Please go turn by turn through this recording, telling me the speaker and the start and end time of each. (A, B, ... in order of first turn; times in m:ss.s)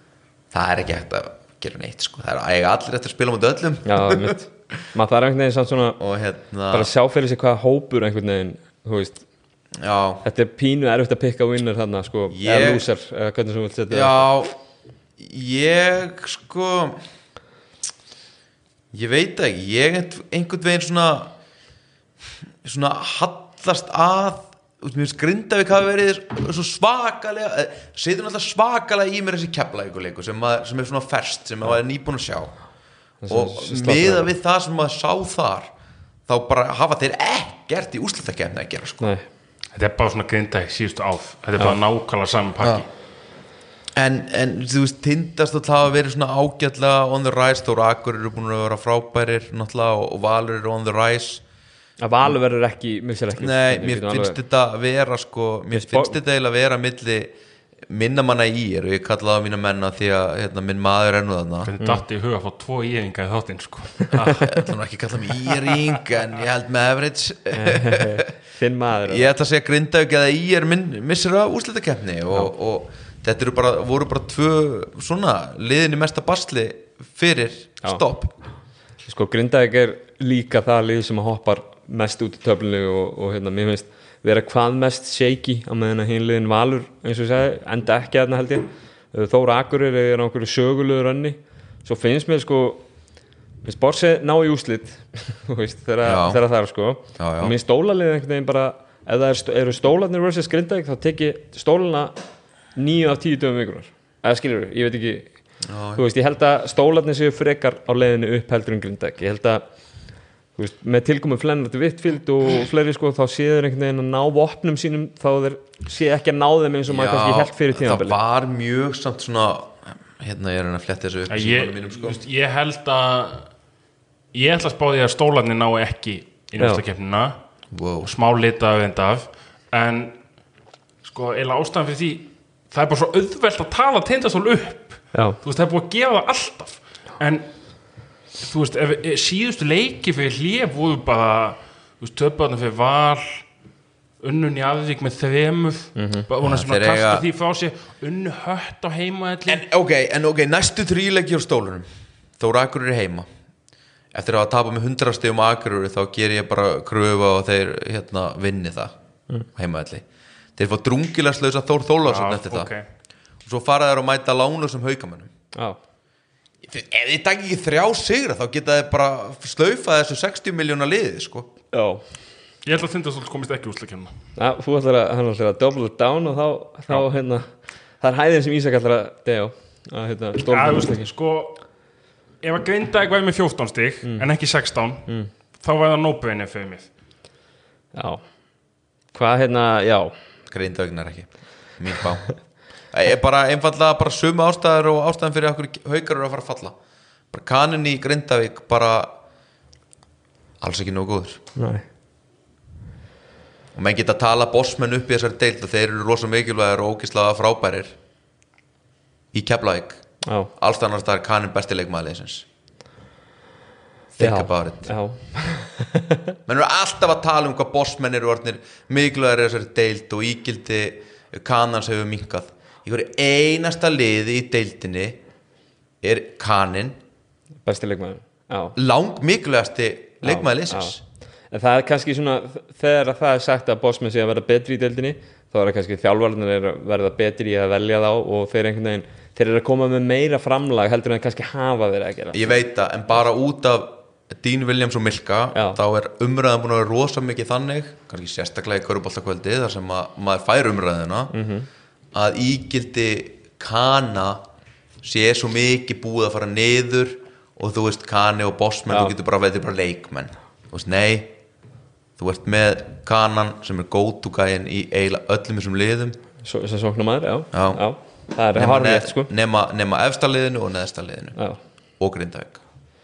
0:00.5-0:04.4 A
0:03.8-0:06.0 B
0:06.0-0:06.9 A
0:06.7-0:09.2 B
0:09.8-0:10.2 A
0:10.2-0:14.3 B
0:12.3-0:12.9 A
0:13.9-0:14.6 A
0:15.2-0:17.0 A
0:18.9-0:21.3 A
0:22.6-0:32.6 A
0:33.2-0:34.3 B
0:33.3-0:35.7 A
0:36.3-0:39.1 A
0:39.0-0:39.2 B
0:39.8-0:42.9 C
0:44.0-0:51.4 A
0:52.0-0:54.4 B
0:53.4-0:57.3 A
0:55.7-0:56.1 B
0:57.9-1:01.7 A
1:01.6-1:04.6 C
1:04.5-1:08.3 A
1:07.6-1:09.3 B
1:09.1-1:18.3 A
1:19.0-1:32.8 B
1:33.6-1:42.2 B
1:36.0-1:36.4 A
1:37.2-1:37.5 A
1:42.8-1:45.3 B
1:45.6-1:46.0 A
1:46.0-1:49.6 B
1:50.6-1:58.2 B
1:56.9-2:02.2 A
2:01.3-2:03.5 C
2:04.3-2:07.4 C
2:07.7-2:08.1 A
2:08.0-2:10.2 C
2:11.0-2:23.4 C
2:24.2-2:29.6 C
2:26.0-2:26.3 B
2:26.4-2:27.2 A
2:29.5-2:31.9 A
2:32.4-2:33.3 A
2:34.1-2:38.9 A
2:39.6-2:40.0 A
2:40.6-2:42.7 A
2:42.1-2:42.9 C
2:43.5-2:45.3 A
2:45.5-2:45.8 B
2:46.6-2:51.5 A
2:51.7-2:52.0 B
2:52.6-2:54.1 C
2:54.4-2:57.5 B
2:58.0-3:01.1 B
3:00.5-3:01.6 C
3:02.4-3:06.9 C
3:04.0-3:04.3 B
3:07.9-3:08.2 B
3:09.1-3:10.1 B
3:10.5-3:12.3 A
3:12.9-3:16.8 A
3:17.3-3:19.1 A
3:20.6-3:21.4 A
3:21.6-3:21.8 B
3:23.8-3:28.0 A
3:29.3-3:30.0 A
3:30.2-3:30.5 B
3:30.6-3:32.5 A
3:34.1-3:34.9 A
3:34.2-3:36.4 B
3:36.5-3:45.2 A
3:46.0-3:47.0 A
3:47.6-3:48.8 B
3:48.8-3:51.0 A
3:50.2-3:51.0 B
3:51.5-4:02.5 B
4:02.3-4:11.3 A
4:05.5-4:05.8 B
4:11.3-4:11.7 B
4:12.1-4:14.4 A
4:15.0-4:21.3 A
4:18.9-4:19.1 B
4:22.2-4:26.2 A
4:26.4-4:29.3 B
4:27.5-4:27.8 A
4:28.5-4:31.4 A
4:32.0-4:32.6 A